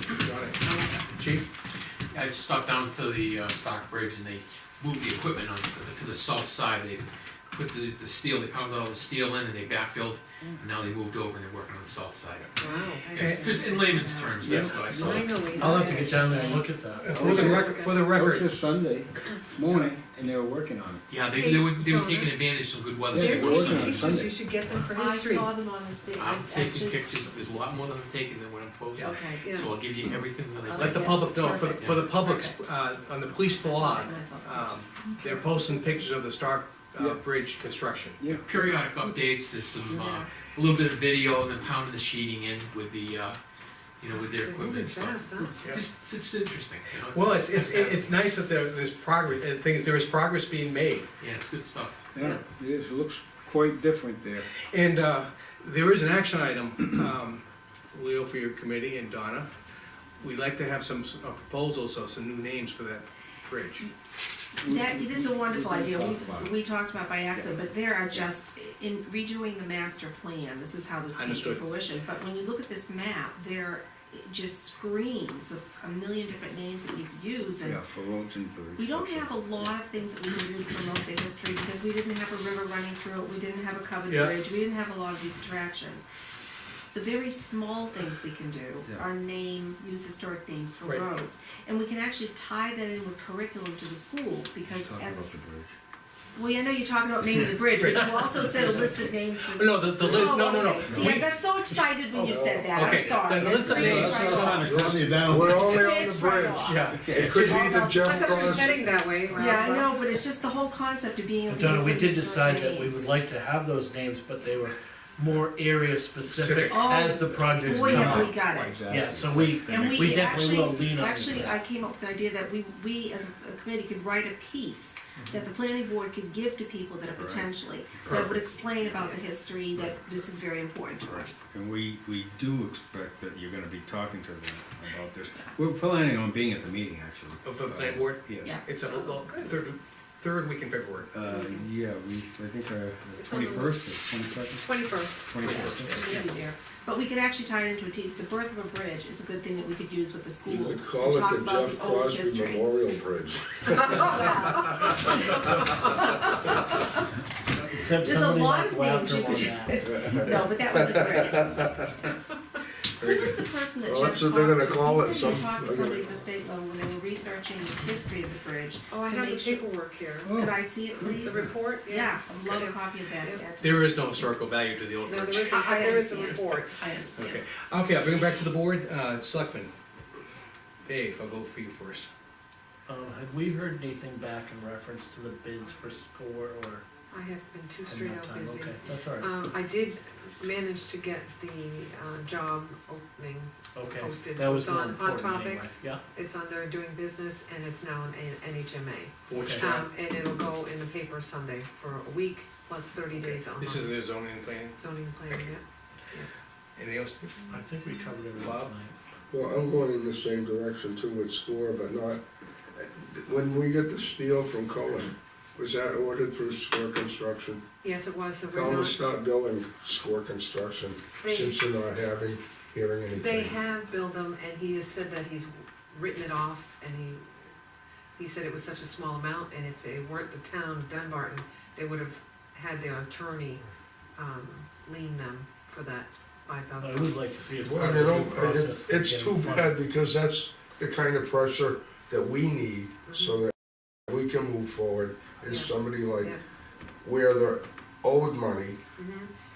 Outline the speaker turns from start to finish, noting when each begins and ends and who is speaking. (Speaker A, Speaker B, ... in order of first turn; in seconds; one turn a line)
Speaker A: 0.2-1.5
Speaker B: 0.6-1.1
Speaker C: 2.1-15.3
Speaker B: 12.6-15.9
Speaker D: 12.6-13.4
Speaker A: 14.4-14.8
Speaker E: 14.5-14.9
Speaker D: 14.8-18.0
Speaker F: 15.6-17.1
Speaker A: 16.9-18.5
Speaker E: 17.1-21.0
Speaker A: 19.6-20.0
Speaker C: 21.1-24.2
Speaker D: 21.3-22.4
Speaker E: 23.1-24.4
Speaker D: 23.1-25.5
Speaker B: 24.8-27.1
Speaker C: 26.2-31.2
Speaker B: 29.0-29.5
Speaker D: 29.4-29.7
Speaker B: 30.6-32.6
Speaker A: 30.8-38.4
Speaker C: 31.7-32.0
Speaker B: 33.5-36.1
Speaker E: 37.0-37.2
Speaker E: 38.2-38.8
Speaker C: 38.5-43.4
Speaker B: 39.9-40.3
Speaker C: 44.0-48.2
Speaker D: 44.4-45.7
Speaker A: 47.1-51.1
Speaker C: 51.2-52.1
Speaker E: 52.1-54.5
Speaker A: 54.6-59.5
Speaker A: 60.2-63.9
Speaker B: 64.6-77.8
Speaker E: 64.6-66.5
Speaker E: 67.3-67.7
Speaker A: 71.1-71.7
Speaker E: 77.6-79.8
Speaker B: 78.8-86.0
Speaker A: 84.1-84.4
Speaker B: 86.9-95.4
Speaker E: 88.8-89.1
Speaker A: 90.8-91.1
Speaker E: 94.7-95.7
Speaker B: 96.3-104.8
Speaker A: 97.7-105.2
Speaker G: 102.2-103.1
Speaker E: 103.5-105.7
Speaker G: 104.6-108.9
Speaker B: 105.6-113.1
Speaker A: 106.6-107.5
Speaker E: 107.0-107.6
Speaker D: 108.0-110.0
Speaker F: 111.5-118.4
Speaker A: 116.2-116.8
Speaker B: 116.7-118.8
Speaker E: 117.7-120.6
Speaker F: 118.9-121.6
Speaker B: 119.7-131.4
Speaker A: 125.2-125.5
Speaker E: 127.1-128.8
Speaker D: 129.0-129.3
Speaker E: 131.0-138.6
Speaker A: 137.4-141.2
Speaker B: 138.4-139.2
Speaker E: 141.1-146.3
Speaker D: 141.2-141.7
Speaker D: 143.2-143.9
Speaker D: 144.6-145.7
Speaker B: 145.4-152.7
Speaker G: 150.5-154.2
Speaker B: 153.8-156.8
Speaker F: 157.7-159.8
Speaker B: 157.9-161.7
Speaker G: 159.8-160.4
Speaker B: 163.0-169.7
Speaker G: 163.0-166.1
Speaker D: 168.9-170.4
Speaker E: 170.2-171.4
Speaker B: 170.3-173.9
Speaker D: 171.2-173.6
Speaker A: 173.6-175.6
Speaker D: 175.1-176.8
Speaker B: 175.5-177.4
Speaker A: 176.3-179.7
Speaker A: 180.8-182.1
Speaker F: 182.9-186.9
Speaker D: 187.1-204.0
Speaker F: 187.9-189.3
Speaker F: 193.7-196.0
Speaker A: 199.3-199.9
Speaker F: 199.3-199.7
Speaker A: 203.1-205.6
Speaker D: 204.7-206.3
Speaker A: 206.8-207.6
Speaker F: 207.5-208.9
Speaker A: 208.4-208.7
Speaker G: 209.3-212.2
Speaker G: 212.8-217.6
Speaker D: 217.8-219.0
Speaker G: 218.5-223.6
Speaker D: 221.2-221.6
Speaker D: 223.1-227.5
Speaker D: 228.2-233.7
Speaker D: 234.2-237.4
Speaker F: 236.8-239.8
Speaker G: 237.6-246.3
Speaker D: 245.4-246.4
Speaker G: 247.0-248.8
Speaker D: 249.0-249.3